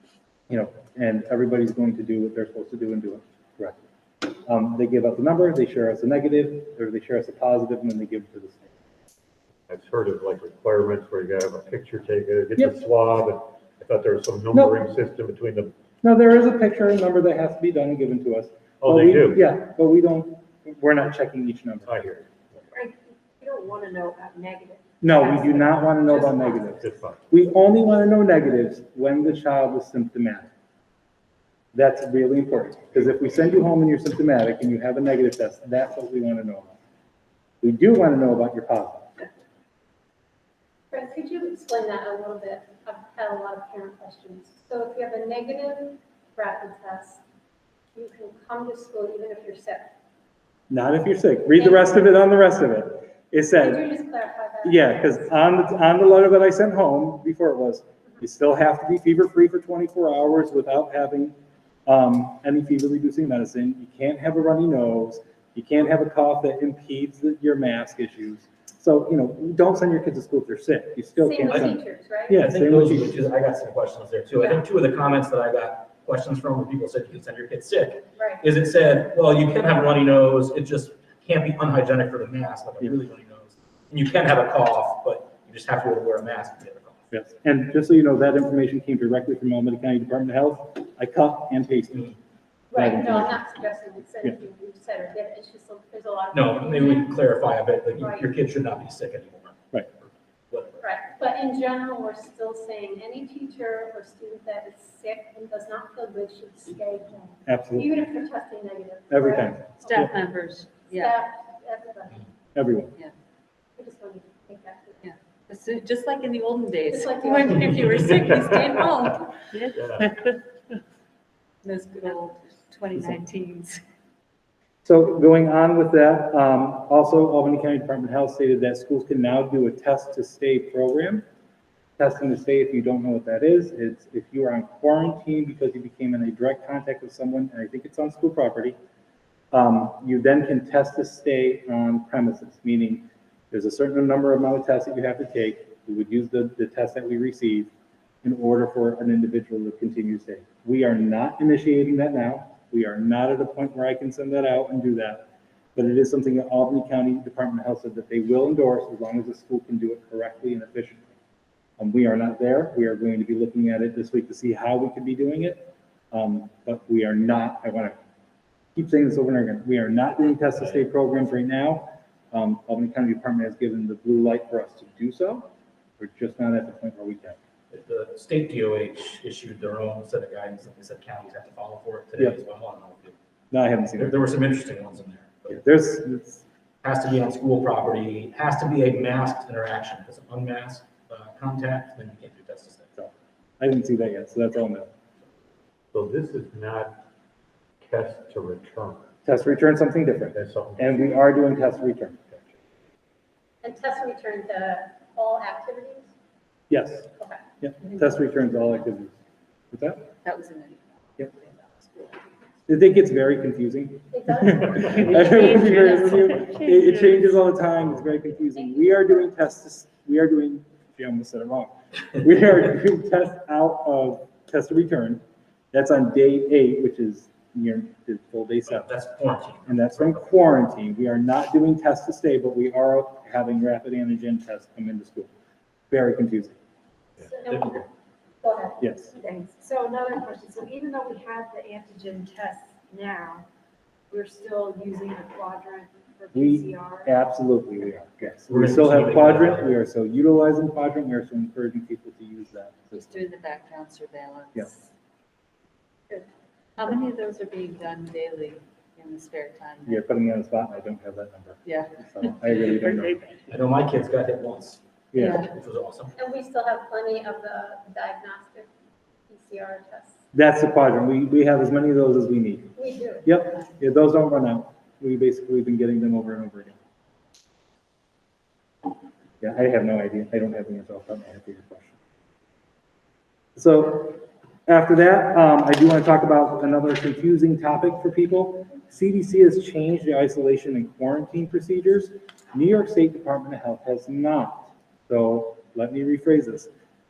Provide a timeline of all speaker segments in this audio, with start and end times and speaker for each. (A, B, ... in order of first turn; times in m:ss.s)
0:00.5-0:08.7 A
0:09.7-0:15.7 B
0:14.5-0:14.8 A
0:16.0-0:22.1 A
0:18.8-0:19.4 B
0:21.8-0:22.3 B
0:22.7-0:26.6 C
0:25.0-0:30.5 A
0:26.7-0:27.2 B
0:31.7-0:36.8 A
0:37.6-0:39.1 A
0:40.9-0:47.2 D
0:47.9-0:49.9 D
0:50.7-0:53.9 A
0:51.5-0:51.9 D
0:53.5-0:55.2 D
0:54.6-1:01.4 A
1:01.9-1:13.1 A
1:11.2-1:12.4 D
1:12.4-1:27.0 E
1:18.1-1:18.4 D
1:27.1-1:32.1 A
1:32.7-1:38.3 D
1:32.7-1:33.4 A
1:36.3-1:39.7 E
1:40.5-1:40.8 E
1:40.8-1:50.0 D
1:47.4-1:47.9 A
1:49.1-1:50.1 A
1:49.8-1:51.2 F
1:50.9-1:52.3 D
1:52.5-1:52.9 A
1:53.8-1:55.1 D
1:55.0-2:00.3 F
1:56.9-1:58.1 D
1:59.7-2:00.2 B
2:01.6-2:03.8 F
2:04.8-2:11.2 A
2:12.0-2:18.8 A
2:19.5-2:27.7 A
2:28.2-2:41.1 A
2:41.8-2:48.0 A
2:48.8-2:55.5 A
2:56.0-2:57.4 A
2:57.7-3:03.2 E
3:03.5-3:04.2 A
3:04.0-3:05.6 E
3:05.5-3:06.4 A
3:06.8-3:12.9 E
3:13.0-3:14.9 A
3:15.9-3:17.0 B
3:17.8-3:19.1 B
3:19.2-3:22.5 A
3:20.3-3:21.1 B
3:23.6-3:26.1 D
3:26.7-3:29.2 A
3:29.7-3:30.1 A
3:30.2-3:32.2 F
3:32.7-3:48.9 A
3:34.1-3:36.0 D
3:35.6-3:37.3 C
3:38.5-3:39.3 D
3:48.6-3:50.3 E
3:49.6-3:55.3 A
3:55.9-3:56.6 A
3:57.2-3:57.8 C
3:57.4-3:57.7 D
3:58.4-3:58.8 D
3:58.8-3:59.1 A
3:59.2-4:03.4 C
4:04.1-4:07.1 C
4:06.3-4:13.2 A
4:08.5-4:09.8 E
4:12.9-4:14.8 F
4:16.8-4:20.0 F
4:19.8-4:23.4 A
4:21.6-4:22.6 F
4:23.5-4:26.1 E
4:25.1-4:25.5 A
4:25.1-4:25.5 F
4:26.2-4:28.7 D
4:29.3-4:30.2 D
4:30.3-4:36.8 A
4:32.8-4:33.2 D
4:39.4-4:41.9 A
4:43.6-4:56.7 A